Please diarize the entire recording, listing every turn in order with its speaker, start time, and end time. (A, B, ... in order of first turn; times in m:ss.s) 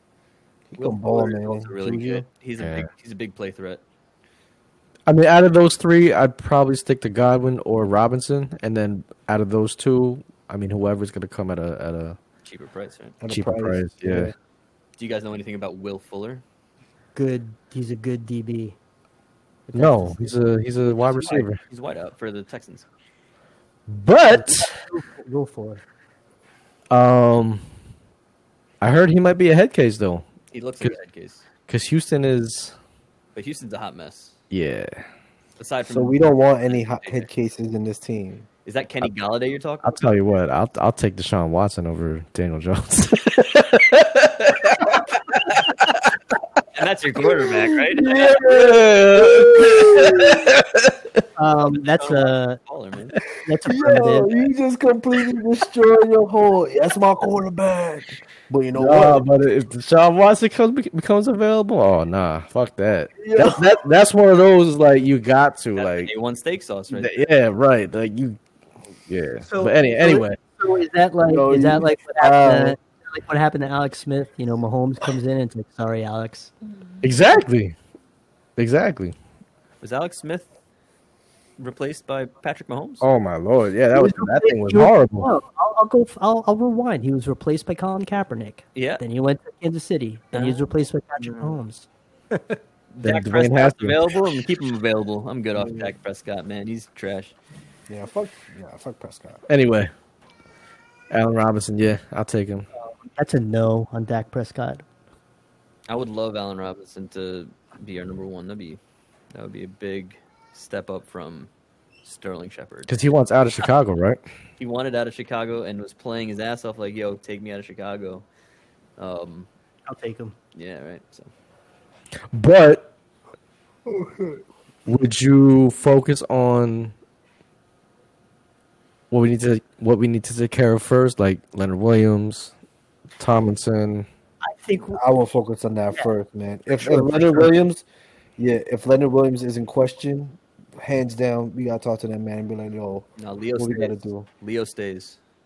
0:00.7-0:02.2 A
0:00.8-0:03.8 B
0:02.6-0:02.9 C
0:05.1-0:12.2 C
0:12.4-0:13.2 B
0:13.2-0:14.3 A
0:13.3-0:14.3 C
0:15.0-0:16.4 B
0:17.2-0:18.8 D
0:19.7-0:21.4 D
0:19.7-0:21.6 C
0:21.3-0:22.9 B
0:23.9-0:24.8 C
0:24.3-0:25.8 D
0:26.9-0:27.6 C
0:28.8-0:30.3 C
0:30.5-0:31.4 B
0:31.7-0:32.7 C
0:33.4-0:34.3 B
0:34.5-0:35.0 C
0:35.6-0:37.3 B
0:35.9-0:38.5 A
0:38.6-0:40.0 B
0:39.8-0:45.0 C
0:46.7-0:48.4 B
0:47.7-0:50.6 A
0:48.3-0:51.0 C
0:51.4-0:52.6 D
0:51.7-0:53.2 B
0:53.4-0:54.3 D
0:53.6-0:59.2 A
0:58.8-1:06.1 C
1:03.2-1:03.7 A
1:05.8-1:07.3 B
1:06.9-1:08.4 C
1:09.1-1:10.4 C
1:09.4-1:16.5 D
1:11.3-1:12.8 A
1:17.0-1:17.8 C
1:18.6-1:19.2 C
1:19.8-1:20.5 B
1:21.6-1:23.1 B
1:23.0-1:25.3 C
1:23.9-1:32.6 D
1:28.8-1:29.0 B
1:30.3-1:30.6 B
1:31.2-1:31.6 B
1:32.9-1:37.4 B
1:33.0-1:34.1 C
1:35.6-1:35.9 A
1:37.9-1:39.4 A
1:39.5-1:39.9 C
1:41.1-1:42.7 C
1:43.1-1:44.8 D
1:45.9-1:48.8 B
1:49.3-1:51.5 B
1:52.0-1:53.0 B
1:52.9-1:54.2 C
1:54.6-1:58.3 B
1:59.0-1:59.5 B
1:59.9-2:00.4 D
2:00.6-2:01.3 B
2:02.3-2:02.9 C
2:03.9-2:04.4 A
2:04.9-2:06.9 C
2:09.1-2:12.5 C
2:13.2-2:14.1 C
2:14.4-2:15.0 D
2:15.0-2:17.8 A
2:16.8-2:17.5 D
2:18.4-2:24.3 A
2:23.2-2:25.2 B